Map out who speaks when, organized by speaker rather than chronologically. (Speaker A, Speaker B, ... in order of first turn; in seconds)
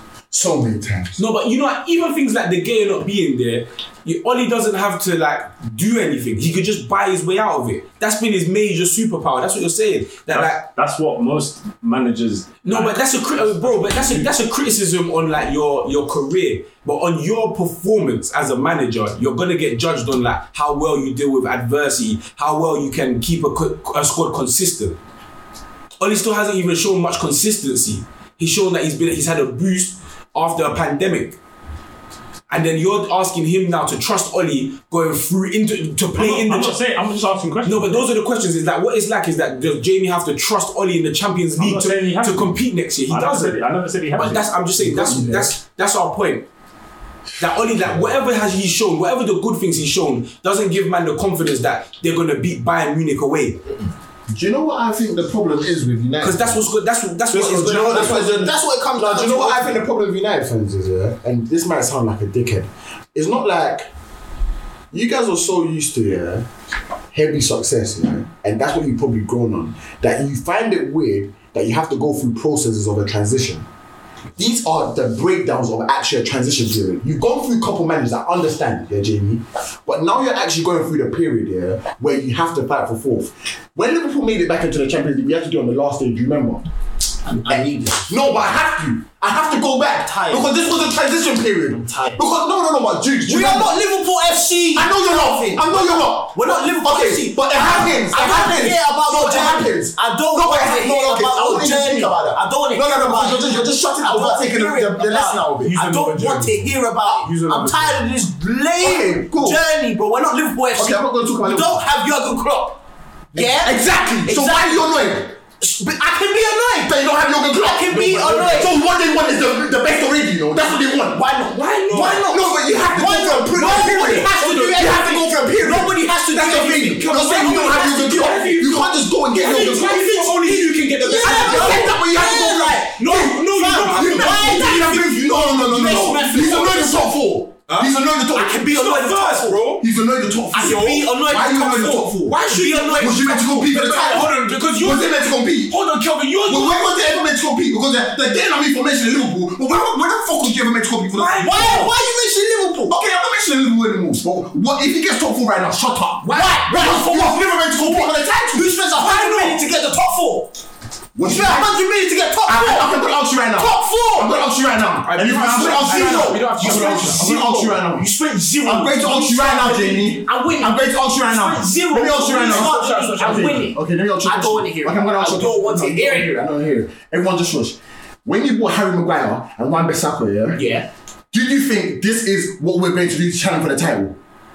Speaker A: 0.3-1.2, 44.8-45.5, 54.3-56.7, 57.3-63.9, 64.9-66.5, 67.1-73.6, 74.4-86.6, 87.5-93.8, 94.7-105.7, 108.8-109.6, 110.8-111.8, 113.3-115.4, 116.8-121.3, 121.9-130.4, 131.0-133.2, 133.8-138.7, 139.8-142.2, 142.9-145.8, 146.4-151.5, 152.9-158.7, 161.1-161.7, 162.4-168.1, 168.6-180.6, 181.3-184.2
Speaker B: 1.2-10.7, 12.6-25.0, 26.0-31.4, 32.5-36.8, 37.6-46.5, 47.4-53.6, 56.2-58.2, 105.6-108.1, 121.5-122.3, 123.5-124.8, 126.3-134.9, 135.6-136.7, 137.7-139.8, 140.6-146.9, 151.1-151.9, 156.2-156.7, 158.9-159.6, 165.0-167.7, 172.3-173.7
Speaker C: 10.3-14.3, 36.1-38.0, 41.6-44.5
Speaker D: 57.6-59.8, 87.2-88.2, 89.9-90.5, 91.7-92.3, 93.2-112.8, 113.3-115.0, 115.6-118.7, 121.1-128.3, 130.6-137.3, 138.3-139.6, 140.5-143.3, 151.4-152.9, 156.2-160.5, 161.2-163.0, 163.5-164.4, 165.8-176.3, 180.5-180.9